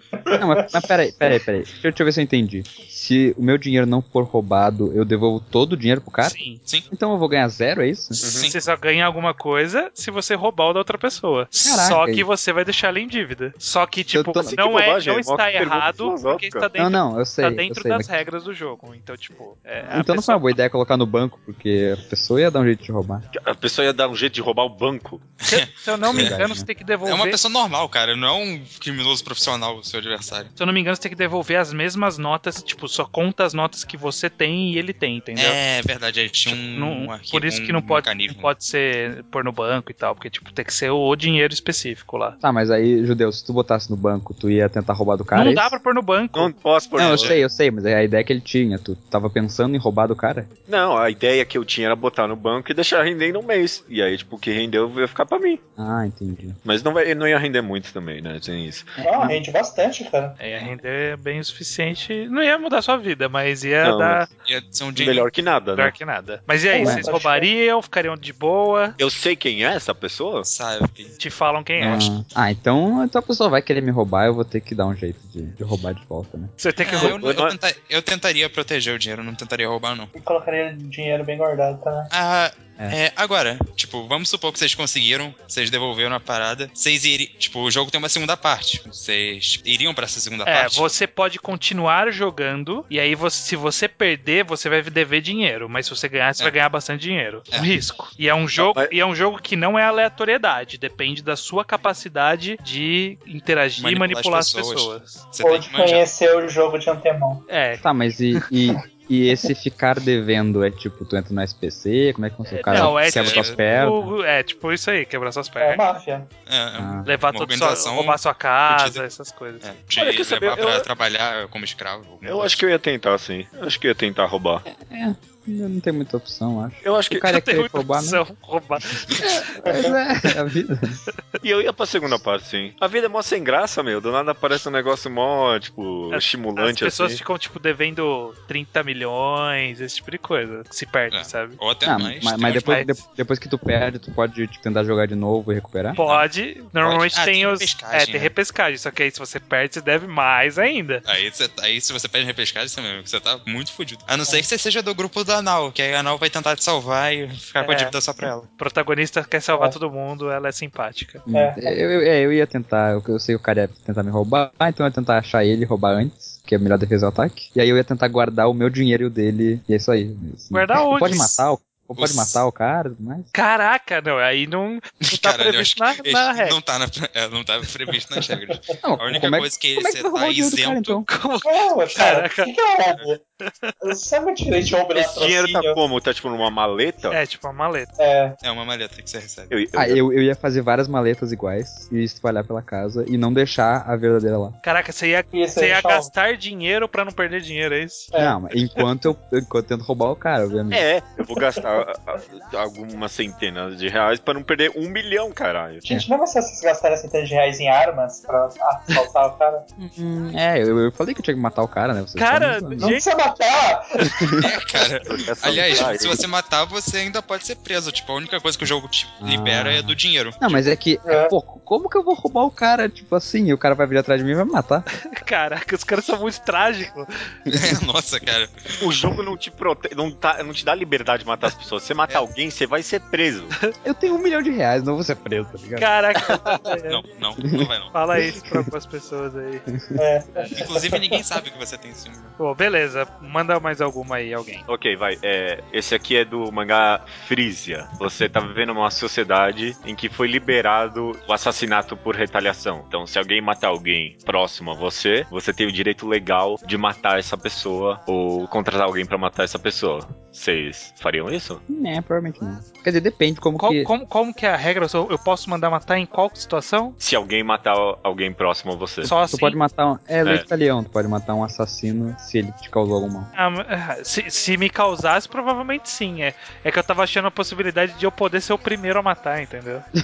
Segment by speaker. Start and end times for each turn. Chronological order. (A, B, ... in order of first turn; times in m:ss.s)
0:00.2-0:00.8 A
0:00.4-0:06.4 B
0:06.2-0:06.6 C
0:06.9-0:08.2 B
0:08.2-0:08.5 D
0:08.2-0:08.6 E
0:08.4-0:20.6 C
0:11.6-0:12.3 B
0:14.1-0:14.6 B
0:14.5-0:16.7 D
0:16.7-0:18.1 B
0:19.9-0:23.2 B
0:23.3-0:25.3 D
0:25.4-0:26.4 E
0:25.5-0:27.4 C
0:26.1-0:26.6 B
0:27.0-0:30.5 E
0:30.6-0:35.6 C
0:35.3-0:38.5 E
0:36.4-0:42.4 C
0:42.4-0:45.8 B
0:45.3-0:46.5 C
0:46.3-0:47.4 D
0:47.0-0:50.5 B
0:50.7-0:55.6 D
0:55.8-0:56.6 B
0:56.6-0:58.9 D
0:59.0-0:59.4 B
0:59.0-1:00.4 A
1:00.4-1:04.3 C
1:03.8-1:04.3 D
1:04.4-1:05.3 E
1:05.0-1:05.9 D
1:05.7-1:09.0 C
1:06.7-1:07.5 A
1:06.8-1:07.1 B
1:09.0-1:10.5 D
1:10.4-1:11.1 E
1:11.2-1:12.1 C
1:11.8-1:16.5 B
1:16.6-1:17.2 C
1:16.8-1:20.1 E
1:17.0-1:17.6 D
1:20.1-1:22.1 A
1:22.1-1:30.9 E
1:30.4-1:45.2 C
1:38.6-1:38.9 D
1:43.8-1:46.0 E
1:45.4-1:47.4 A
1:47.5-1:47.8 C
1:47.8-1:54.1 B
1:52.5-1:55.9 C
1:52.7-1:53.6 E
1:55.6-1:56.3 A
1:56.5-1:59.0 E
1:56.8-1:57.1 B
1:57.0-1:59.6 C
1:59.6-2:02.6 E
2:00.0-2:00.9 D
2:02.2-2:04.6 D
2:04.7-2:08.2 B
2:06.8-2:07.2 D
2:07.1-2:09.4 C
2:09.2-2:11.0 B
2:09.6-2:09.9 A
2:11.4-2:17.2 D
2:16.1-2:21.6 C
2:21.1-2:22.8 E
2:21.8-2:26.0 B
2:22.4-2:23.0 C
2:26.0-2:26.3 E
2:26.0-2:31.0 C
2:26.8-2:28.3 E
2:31.0-2:38.5 E
2:37.6-2:37.9 C
2:38.5-2:41.2 C
2:41.3-2:53.3 B
2:41.3-2:41.7 A
2:50.5-2:51.4 C
2:52.0-2:52.4 E
2:53.3-2:56.6 C
2:55.0-3:01.0 E
2:58.8-3:01.1 B
3:01.1-3:02.5 C
3:01.4-3:03.2 A
3:03.4-3:03.7 C
3:03.8-3:05.8 A
3:04.9-3:07.2 D
3:07.1-3:07.9 C
3:08.0-3:08.4 A
3:08.4-3:09.5 E
3:09.5-3:10.0 D
3:09.7-3:14.6 B
3:14.6-3:18.1 C
3:15.3-3:16.1 A
3:18.1-3:18.4 A
3:18.1-3:20.8 B
3:20.7-3:25.8 D
3:25.8-3:29.6 A
3:29.8-3:32.9 B
3:32.2-3:33.1 C
3:32.8-3:34.2 A
3:34.1-3:34.5 B
3:34.4-3:40.6 E
3:35.0-3:36.2 D
3:39.2-3:44.8 B
3:41.0-3:41.3 A
3:45.0-3:47.1 C
3:47.5-3:47.8 B
3:47.5-3:48.8 E
3:48.8-3:53.5 D
3:53.8-3:55.9 B
3:55.8-3:57.0 C
3:56.9-3:57.9 E
3:57.6-3:58.6 B
3:57.9-3:59.6 C
4:00.0-4:01.2 A
4:00.5-4:02.3 E
4:02.4-4:04.6 C
4:04.7-4:21.6 D
4:21.7-4:23.9 B
4:23.6-4:27.0 C
4:27.0-4:29.1 D
4:29.0-4:29.6 C
4:29.0-4:33.3 B
4:33.4-4:39.8 C